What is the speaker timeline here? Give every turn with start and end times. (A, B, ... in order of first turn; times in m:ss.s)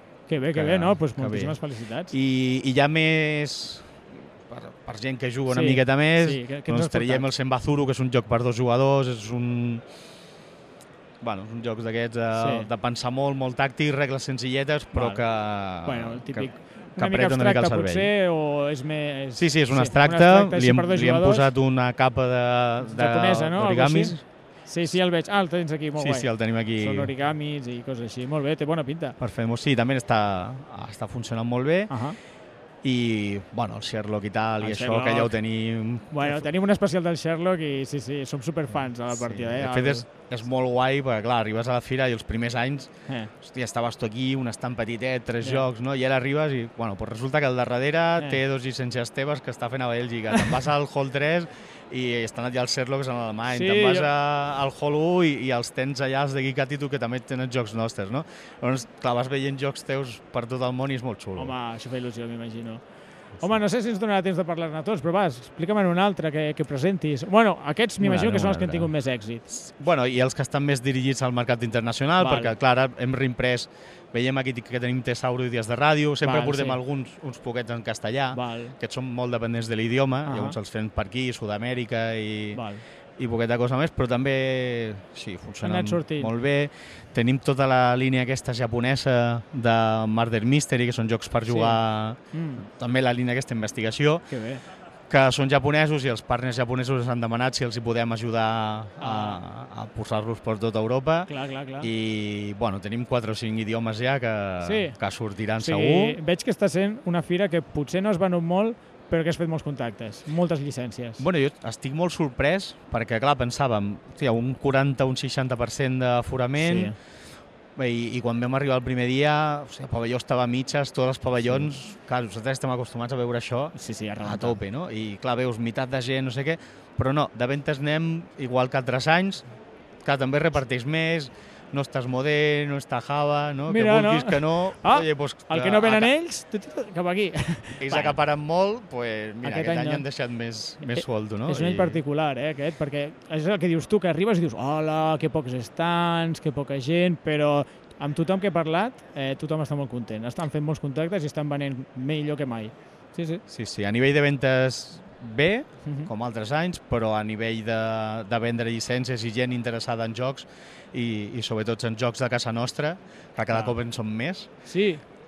0:00.3-0:02.1 A
0:00.4-0:09.8 B
0:05.5-0:07.3 A
0:11.2-0:18.2 B
0:12.3-0:12.7 A
0:14.9-0:15.2 A
0:15.8-0:21.5 A
0:19.4-0:24.2 B
0:22.8-0:29.2 A
0:26.0-0:27.1 B
0:29.2-0:32.0 B
0:31.9-0:32.2 A
0:32.8-0:36.5 B
0:34.6-0:35.4 A
0:36.1-0:40.1 A
0:38.9-1:01.5 B
0:53.5-0:54.1 A
1:01.4-1:02.8 A
1:03.4-1:09.4 A
1:08.0-1:08.9 B
1:09.5-1:22.7 B
1:12.2-1:12.6 A
1:16.2-1:16.8 A
1:18.3-1:18.8 A
1:20.2-1:20.6 A
1:22.5-1:22.8 A
1:23.2-1:34.3 B
1:25.6-1:26.3 A
1:31.5-1:31.8 A
1:32.3-1:32.6 A
1:34.3-1:34.6 A
1:35.1-1:46.2 B
1:39.0-1:39.4 A
1:41.3-1:41.9 A
1:44.6-1:45.0 A
1:45.6-1:51.2 A
1:51.2-1:56.9 B
1:56.6-1:57.0 A
1:57.8-2:09.5 B
2:01.4-2:01.7 A
2:03.8-2:04.6 A
2:10.0-2:16.1 B
2:13.7-2:18.2 A
2:17.8-2:22.0 B
2:19.4-2:20.0 A
2:20.8-2:33.4 A
2:33.5-2:44.5 B
2:35.8-2:36.1 A
2:44.7-2:45.0 A